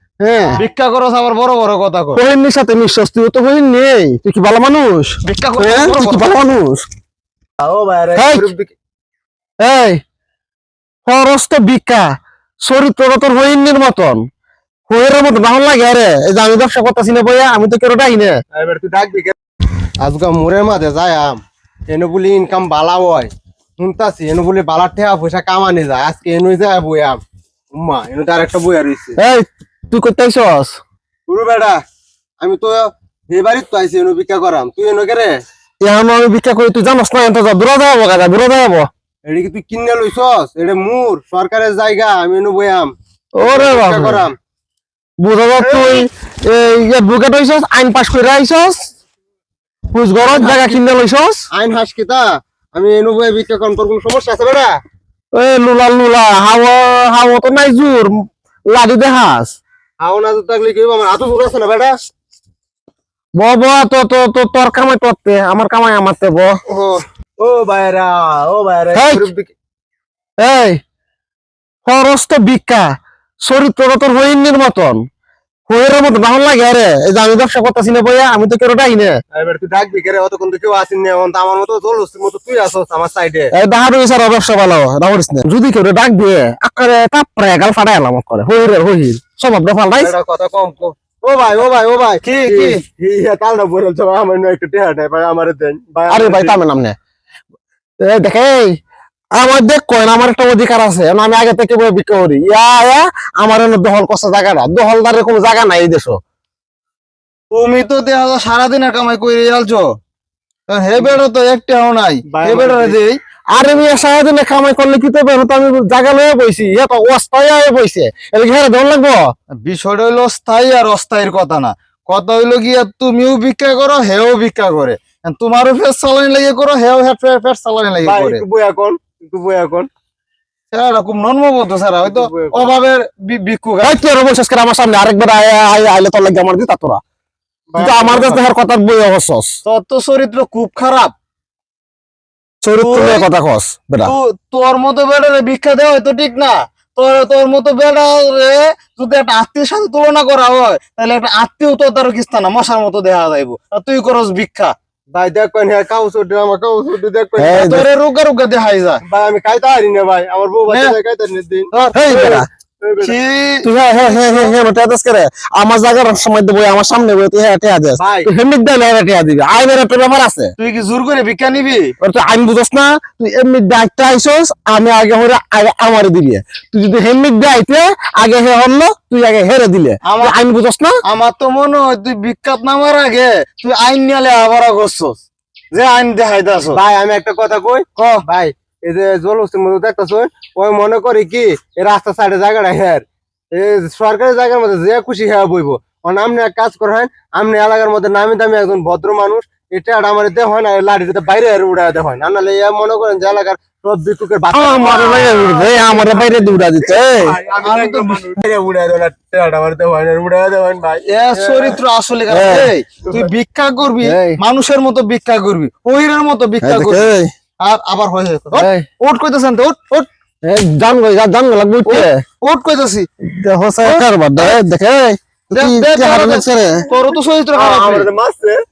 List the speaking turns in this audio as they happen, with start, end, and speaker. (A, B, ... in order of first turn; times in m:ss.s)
0:00.2-0:00.6 A
0:00.6-0:02.2 B
0:02.1-0:06.9 A
0:05.2-0:06.4 B
0:07.6-0:08.7 C
0:08.2-0:08.5 A
0:09.6-0:10.0 A
0:11.1-0:12.1 A
0:12.6-0:14.3 A
0:14.9-0:18.4 A
0:18.5-0:19.3 C
0:20.0-0:27.2 C
0:27.7-0:29.2 C
0:29.2-0:30.8 A
0:31.3-0:31.8 C
0:32.4-0:35.4 C
0:35.8-0:38.9 A
0:39.3-0:44.3 C
0:43.4-0:44.2 A
0:45.2-0:48.9 A
0:45.6-0:46.0 C
0:49.9-0:51.4 A
0:50.3-0:50.8 C
0:51.5-0:54.7 C
0:55.3-0:59.6 A
1:00.0-1:02.0 C
1:03.4-1:06.6 A
1:06.7-1:09.5 C
1:08.9-1:09.2 A
1:10.4-1:10.8 A
1:11.9-1:15.0 A
1:15.7-1:19.2 A
1:19.3-1:23.5 C
1:23.5-1:30.1 A
1:30.0-1:36.6 C
1:32.2-1:32.8 B
1:36.1-1:37.0 A
1:38.0-1:38.8 A
1:39.3-1:46.2 A
1:47.5-1:49.9 B
1:50.7-1:53.2 B
1:52.3-1:53.0 C
1:53.5-1:59.3 A
1:59.5-2:08.4 B
2:08.0-2:09.9 C
2:10.7-2:14.0 B
2:12.0-2:12.7 C
2:13.8-2:17.0 A
2:17.7-2:18.4 C
2:17.8-2:19.5 A
2:19.7-2:21.1 B
2:22.6-2:24.1 A
2:22.8-2:23.3 B
2:24.0-2:34.7 B
2:35.1-2:37.7 C
2:37.4-2:37.9 A
2:37.5-2:39.0 B
2:39.0-2:41.7 C
2:40.7-2:41.0 B
2:41.7-2:42.4 B
2:41.9-2:42.5 A
2:42.8-2:43.2 C
2:43.0-2:43.7 B
2:43.6-2:50.5 A
2:43.9-2:44.6 C
2:48.0-2:48.3 C
2:50.6-2:51.9 B
2:52.0-3:01.0 A
3:00.0-3:00.3 B
3:01.0-3:05.2 B
3:05.7-3:06.8 B
3:06.7-3:31.8 C
3:08.0-3:08.2 B
3:24.5-3:27.3 A
3:25.1-3:25.7 B
3:27.6-3:28.3 B
3:31.0-3:37.0 B
3:32.3-3:32.7 A
3:33.0-3:33.3 C
3:34.0-3:34.4 C
3:36.6-3:37.3 A
3:37.6-3:40.1 B
3:40.4-3:42.2 A
3:41.8-3:43.1 B
3:43.2-3:46.9 A
3:43.8-3:44.6 B
3:45.5-3:48.1 B
3:47.5-3:48.6 C